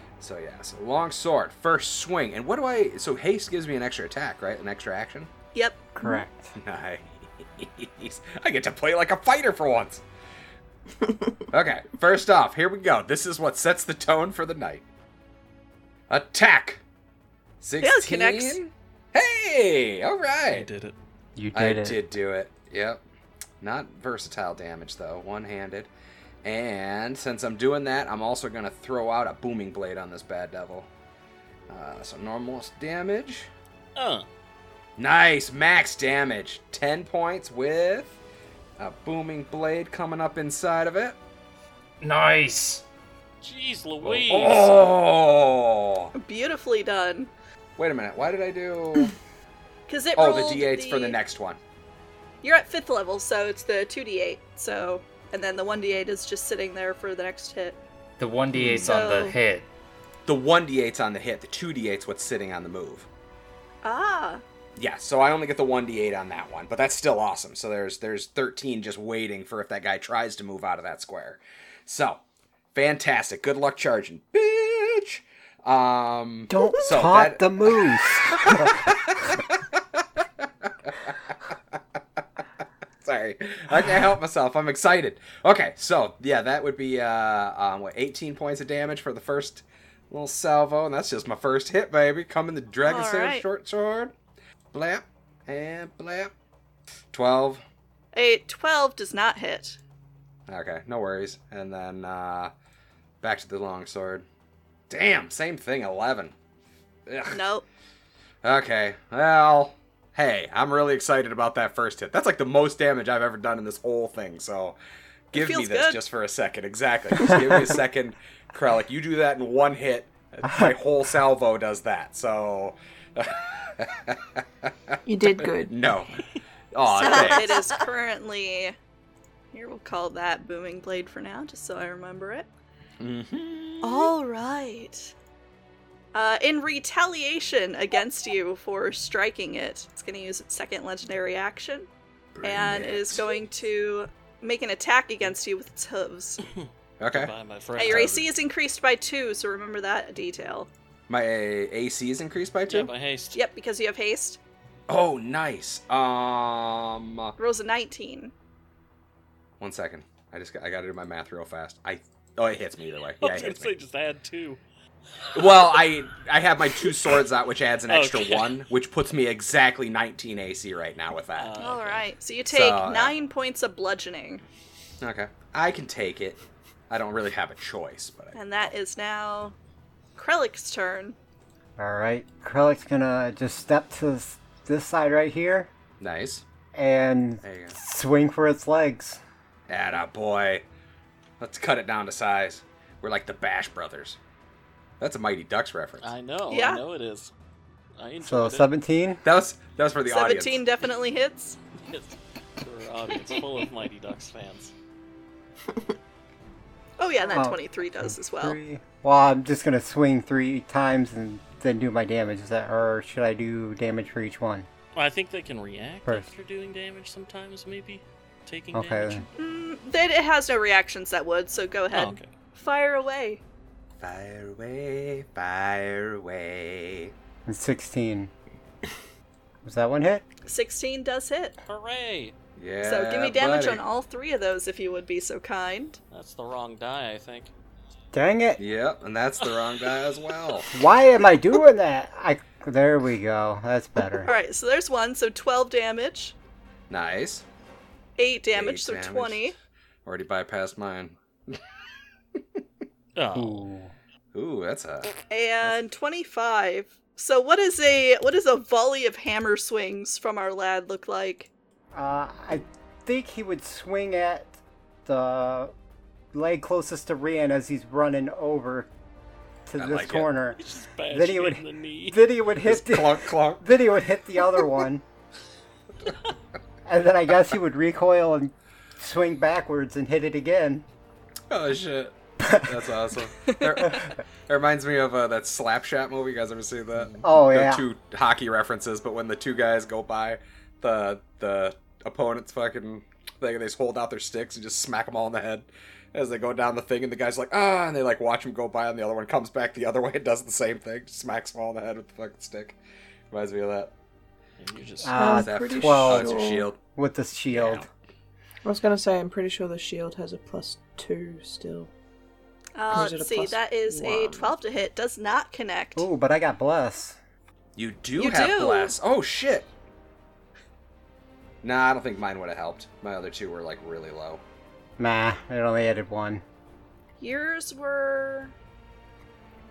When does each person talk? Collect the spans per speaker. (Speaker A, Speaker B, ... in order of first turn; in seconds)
Speaker A: 0.2-5.3, 6.6-10.0, 11.5-14.8, 16.1-16.8, 17.6-20.7, 21.5-23.0, 23.6-25.9, 26.4-30.9, 31.7-33.5, 35.0-38.1, 38.8-41.2, 44.0-46.1, 47.8-49.1, 50.1-51.6, 58.5-59.0, 60.2-63.1, 64.8-72.2, 72.7-81.2, 83.0-94.1, 94.7-96.3, 97.1-97.6, 100.5-102.5, 103.2-104.2, 104.9-106.3, 107.1-107.4, 108.4-114.8, 115.3-126.2, 126.7-127.6, 133.0-134.1, 142.3-143.3, 147.0-147.3, 147.8-148.1, 151.1-152.9, 154.9-157.3, 159.6-163.7, 165.3-171.5, 172.5-173.1, 175.0-178.4, 186.0-186.4, 187.4-187.8, 189.7-190.6, 191.4-194.2, 195.0-196.1, 199.2-200.6, 224.0-227.1, 232.6-233.8, 238.6-240.7, 246.9-247.4, 248.5-249.5, 250.0-251.6, 252.3-252.6, 254.3-255.1, 269.8-270.3, 272.6-273.6, 281.5-302.8, 303.3-303.9, 305.2-306.8, 307.5-307.9, 317.8-319.7, 321.6-324.4
Speaker B: 5.5-5.8, 17.8-18.6, 46.1-47.3, 49.9-51.2, 52.4-57.8, 58.8-59.4, 63.8-64.4, 92.8-93.4, 98.1-99.8, 107.3-107.6, 115.3-116.0, 126.9-128.7, 129.5-132.5, 133.8-135.1, 136.1-141.9, 142.4-146.4, 147.8-150.7, 153.3-154.4, 157.4-158.3, 171.6-174.4, 178.3-179.5, 180.2-181.2, 196.5-196.8, 200.1-201.6, 207.0-208.6, 219.4-223.4, 230.4-231.5, 232.8-236.0, 244.2-246.3, 248.2-249.5, 255.3-261.5, 283.4-283.7, 312.8-316.1, 318.2-319.0, 327.2-328.5
Speaker C: 5.9-6.5, 21.4-22.0, 76.5-79.0, 181.8-185.7, 186.7-189.2, 198.2-199.2, 207.3-214.7, 218.7-219.2, 227.4-228.3, 229.6-230.2, 238.1-238.6, 240.7-244.3, 253.3-253.9, 261.9-265.7, 266.3-268.9, 269.6-270.6, 271.1-275.0, 276.8-280.9, 282.4-282.9, 287.2-287.8, 305.0-306.4, 306.9-307.8, 315.9-317.2, 325.0-326.4
Speaker D: 20.5-20.9, 34.0-34.3, 43.4-45.0, 146.4-148.3, 152.7-153.4, 163.2-164.6, 165.4-165.8, 166.8-167.2, 167.9-168.6, 171.4-172.0, 196.0-197.3, 198.0-198.7, 201.8-204.7, 214.9-219.3, 221.9-222.3, 231.7-232.3, 236.1-237.5, 239.4-240.6, 253.2-253.7, 270.6-272.2, 304.6-305.3
Speaker E: 42.0-42.8, 58.2-59.7
Speaker F: 125.0-125.9, 127.0-127.8, 305.1-306.7, 308.6-311.9, 312.9-314.6